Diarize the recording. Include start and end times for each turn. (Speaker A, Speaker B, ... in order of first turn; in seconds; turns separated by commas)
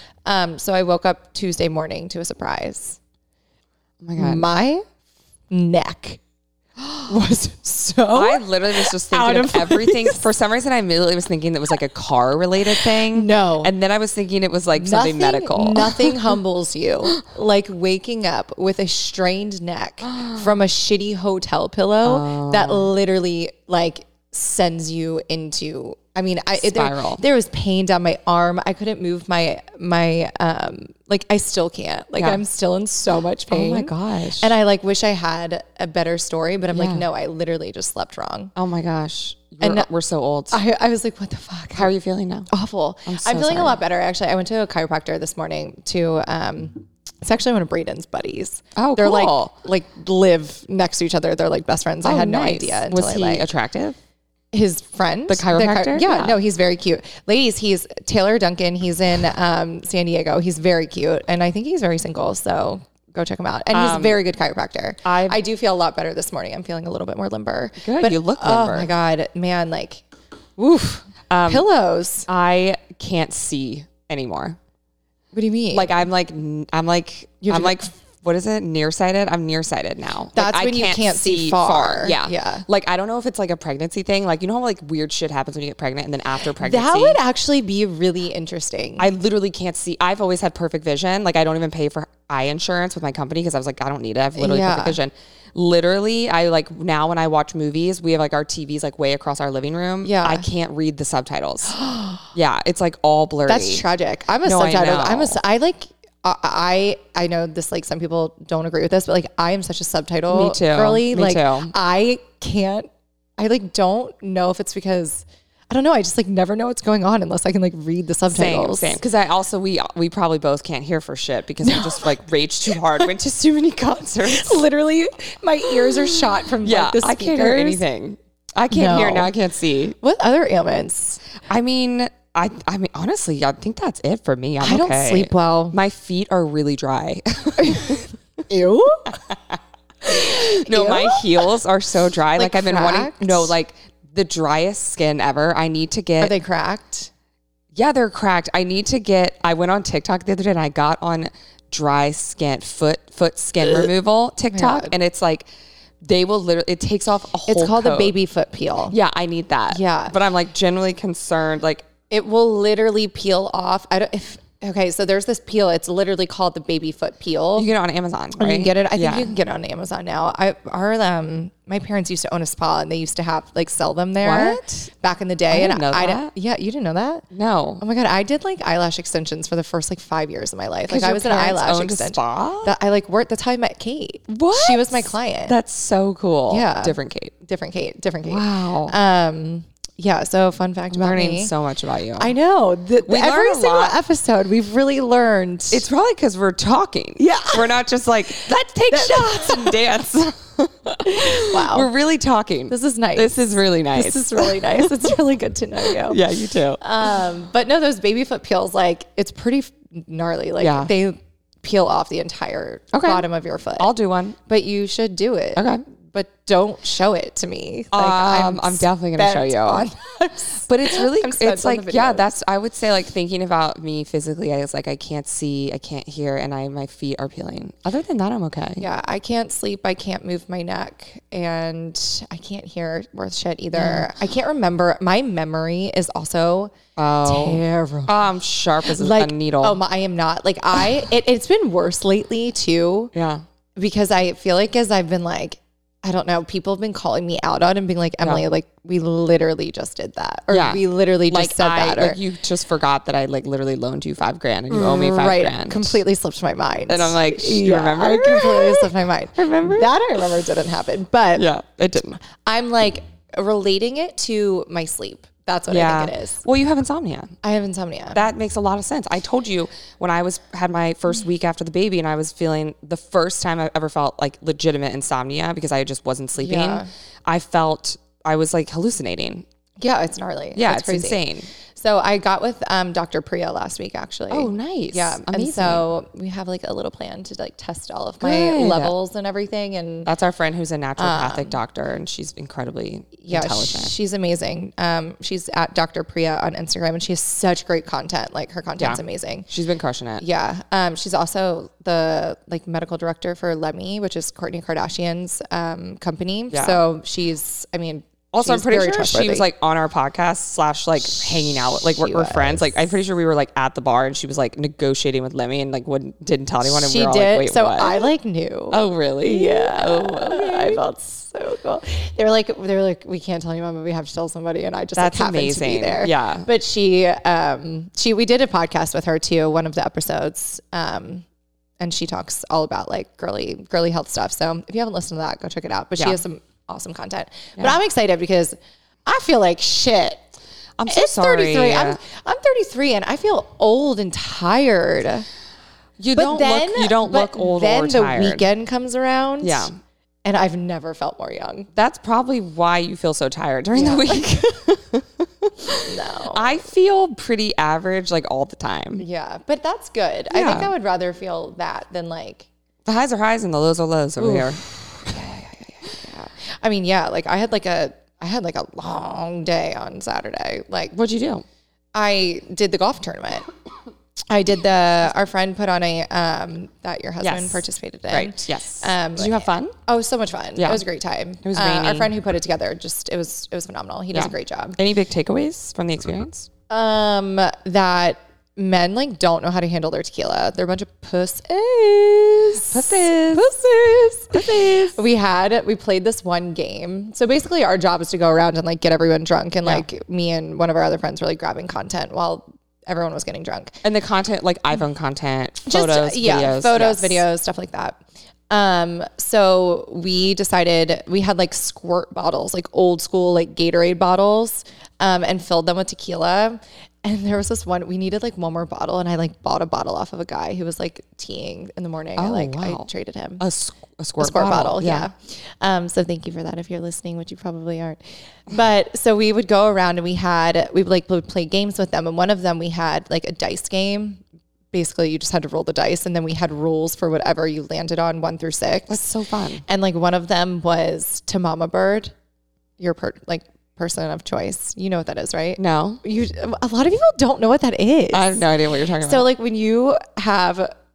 Speaker A: 0.2-3.0, Speaker B: 4.0-4.4, Speaker A: 4.2-4.8, Speaker A: 5.5-6.2, Speaker B: 6.8-7.1, Speaker A: 7.0-10.3, Speaker B: 8.1-16.4, Speaker A: 12.7-13.7, Speaker A: 14.8-38.5, Speaker B: 20.1-20.5, Speaker B: 22.0-22.9, Speaker B: 26.6-27.2, Speaker B: 32.2-32.4, Speaker B: 33.5-34.5, Speaker B: 36.7-37.0, Speaker B: 38.5-40.6, Speaker A: 39.6-39.9, Speaker A: 40.5-41.9, Speaker B: 41.7-42.5, Speaker A: 42.5-53.5, Speaker B: 43.0-43.8, Speaker B: 48.8-49.5, Speaker B: 52.0-54.0, Speaker A: 54.5-70.0, Speaker B: 55.3-56.4, Speaker B: 63.7-64.2, Speaker B: 65.0-65.4, Speaker B: 67.8-68.9, Speaker A: 70.6-72.3, Speaker B: 71.3-71.6, Speaker B: 72.3-74.6, Speaker A: 75.3-76.0, Speaker B: 75.7-87.2, Speaker A: 77.4-77.8, Speaker A: 80.3-82.7, Speaker A: 86.6-89.1, Speaker B: 89.0-101.8, Speaker A: 94.3-95.0, Speaker A: 100.0-100.5, Speaker A: 101.7-102.3, Speaker B: 102.3-103.8, Speaker A: 103.5-119.0, Speaker B: 104.4-105.4, Speaker B: 110.3-111.7, Speaker B: 118.3-124.6, Speaker A: 121.6-122.1, Speaker A: 124.2-127.8, Speaker B: 125.8-130.0, Speaker A: 128.7-129.3, Speaker A: 130.0-131.2, Speaker B: 131.5-138.1, Speaker A: 134.6-135.8, Speaker A: 137.6-139.2, Speaker B: 139.3-146.3, Speaker A: 140.0-141.5, Speaker A: 142.3-143.5, Speaker A: 146.2-147.1, Speaker B: 147.7-155.5, Speaker A: 154.5-154.9, Speaker B: 156.0-158.1, Speaker A: 157.5-159.0, Speaker B: 158.9-161.9, Speaker A: 159.7-160.2, Speaker A: 162.1-167.7, Speaker B: 167.6-169.3, Speaker A: 168.3-177.2, Speaker B: 174.2-174.9, Speaker B: 175.5-176.3, Speaker B: 177.3-177.8, Speaker A: 177.8-185.6, Speaker B: 180.9-182.7, Speaker B: 184.3-187.3, Speaker A: 186.5-191.5, Speaker B: 188.2-188.9, Speaker B: 190.9-192.3, Speaker A: 192.2-195.8, Speaker B: 193.1-194.0, Speaker B: 195.7-205.2, Speaker A: 197.2-197.7, Speaker A: 198.3-199.8, Speaker A: 201.0-201.9, Speaker A: 202.7-203.3, Speaker A: 203.9-206.2, Speaker B: 205.8-206.8, Speaker A: 206.8-213.9, Speaker B: 210.6-210.9, Speaker B: 212.9-213.2, Speaker B: 213.8-214.3, Speaker A: 214.4-222.3, Speaker B: 215.6-215.8, Speaker B: 217.9-219.8, Speaker B: 220.7-228.8, Speaker A: 228.8-238.2, Speaker B: 233.8-234.1, Speaker B: 237.0-239.8, Speaker A: 238.8-243.1, Speaker B: 243.1-243.4, Speaker A: 243.8-252.2, Speaker B: 250.5-256.0, Speaker A: 254.7-261.5, Speaker B: 256.9-259.9, Speaker B: 261.4-262.2, Speaker A: 262.2-266.4, Speaker B: 265.7-267.4, Speaker A: 267.4-268.2, Speaker B: 268.1-279.5, Speaker A: 276.4-276.9, Speaker A: 279.8-290.1, Speaker B: 280.6-281.5, Speaker B: 284.3-285.9, Speaker B: 288.2-288.9, Speaker B: 290.0-293.9, Speaker A: 291.0-291.6, Speaker A: 293.2-299.5, Speaker B: 298.8-300.2, Speaker A: 300.2-309.5, Speaker B: 306.5-306.8, Speaker B: 308.3-318.1, Speaker A: 311.0-312.8, Speaker A: 316.6-331.2, Speaker B: 318.7-320.8, Speaker B: 325.0-326.5, Speaker A: 331.8-340.3, Speaker B: 340.8-342.0, Speaker A: 340.9-345.2, Speaker B: 346.0-348.4, Speaker A: 346.1-349.7, Speaker B: 349.4-349.7, Speaker A: 350.2-351.7, Speaker B: 351.7-359.0, Speaker A: 353.7-354.2, Speaker A: 355.9-356.6, Speaker A: 359.0-362.5, Speaker B: 360.3-360.7, Speaker B: 362.9-364.6, Speaker A: 364.2-371.0, Speaker B: 370.9-371.4, Speaker A: 371.9-373.5, Speaker A: 374.3-384.8, Speaker B: 377.2-379.8, Speaker B: 380.6-380.8, Speaker B: 381.4-382.1, Speaker B: 384.1-386.5, Speaker A: 386.7-403.8, Speaker B: 392.7-393.5, Speaker B: 394.3-395.0, Speaker B: 403.8-407.2, Speaker A: 405.6-423.4, Speaker B: 422.2-422.9, Speaker B: 423.4-425.1, Speaker A: 424.2-439.0, Speaker B: 438.9-439.6, Speaker A: 439.6-442.1, Speaker A: 442.8-448.4, Speaker B: 445.6-446.0, Speaker B: 448.1-449.3, Speaker A: 449.0-450.7